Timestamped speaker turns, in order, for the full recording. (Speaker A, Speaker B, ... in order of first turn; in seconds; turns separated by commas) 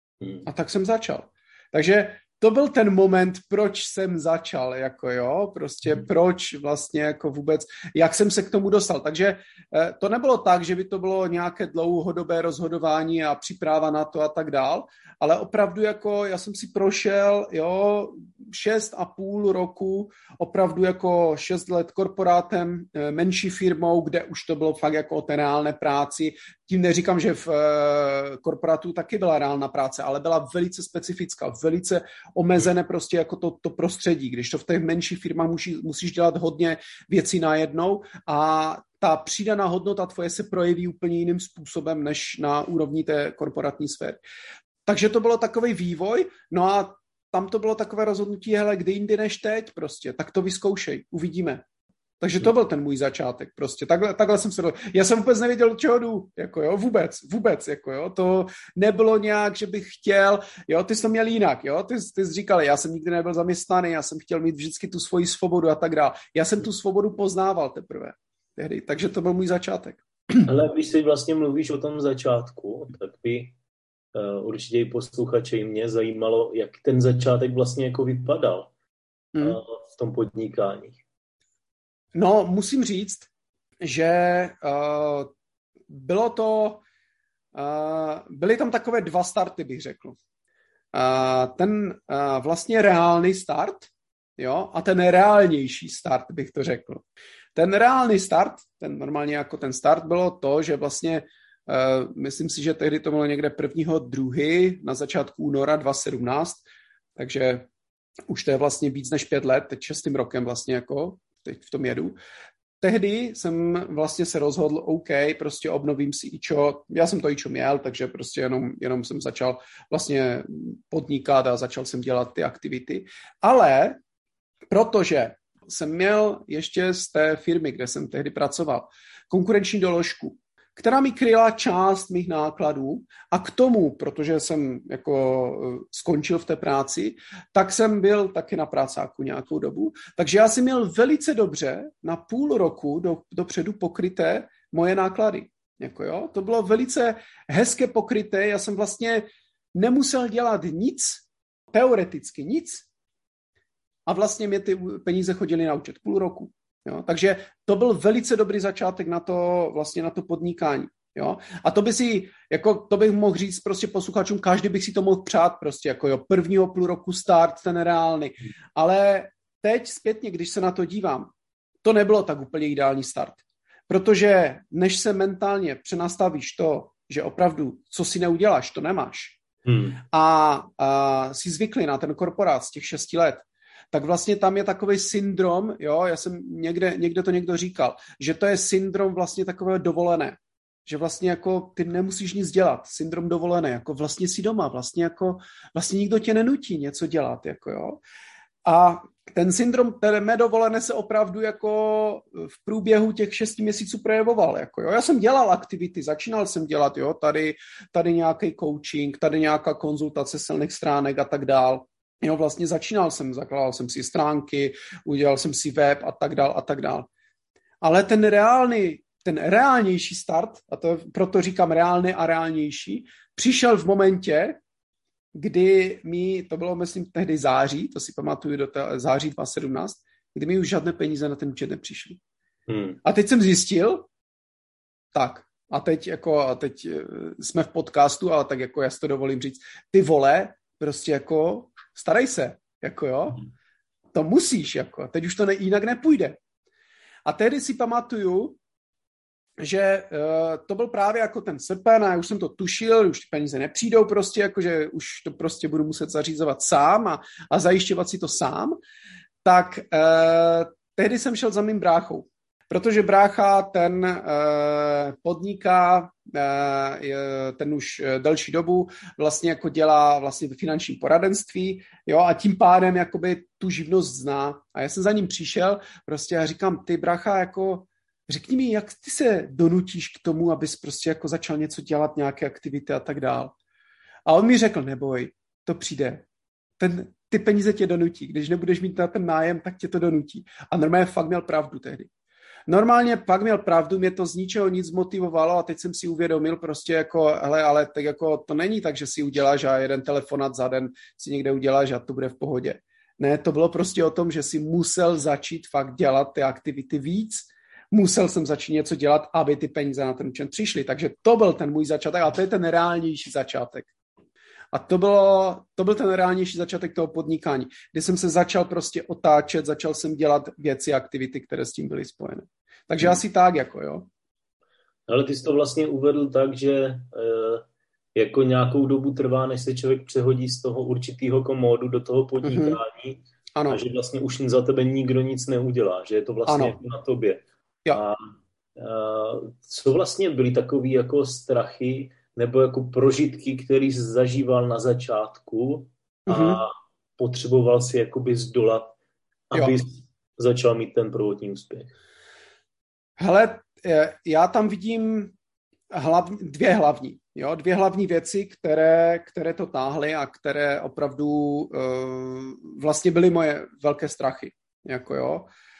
Speaker A: 0.4-44.2, Speaker A: 44.9-51.6, Speaker A: 52.2-70.4, Speaker B: 70.4-73.5, Speaker B: 74.1-78.7, Speaker A: 79.3-79.6, Speaker B: 79.4-81.0, Speaker A: 82.1-83.3, Speaker A: 83.8-85.3, Speaker A: 85.9-86.8, Speaker A: 87.5-90.2, Speaker A: 90.9-97.0, Speaker A: 97.5-106.6, Speaker A: 107.2-107.7, Speaker A: 108.3-112.2, Speaker A: 112.8-124.0, Speaker A: 124.7-152.9, Speaker A: 154.1-171.3, Speaker A: 171.8-179.4, Speaker B: 179.7-180.0, Speaker A: 180.0-198.0, Speaker A: 198.6-217.1, Speaker A: 217.8-224.6, Speaker A: 225.3-232.2, Speaker B: 232.7-233.0, Speaker A: 233.0-234.1, Speaker A: 235.1-243.4, Speaker A: 244.1-246.4, Speaker A: 247.2-248.6, Speaker A: 249.6-258.8, Speaker A: 259.4-283.5, Speaker A: 284.3-286.2, Speaker A: 286.8-292.1, Speaker A: 292.7-313.9, Speaker A: 314.7-324.1, Speaker B: 325.1-338.2, Speaker A: 332.4-332.8, Speaker A: 333.5-333.8, Speaker A: 336.5-336.8, Speaker B: 338.8-348.9, Speaker A: 346.3-346.6, Speaker B: 349.5-351.9, Speaker A: 353.2-355.3, Speaker A: 355.9-365.5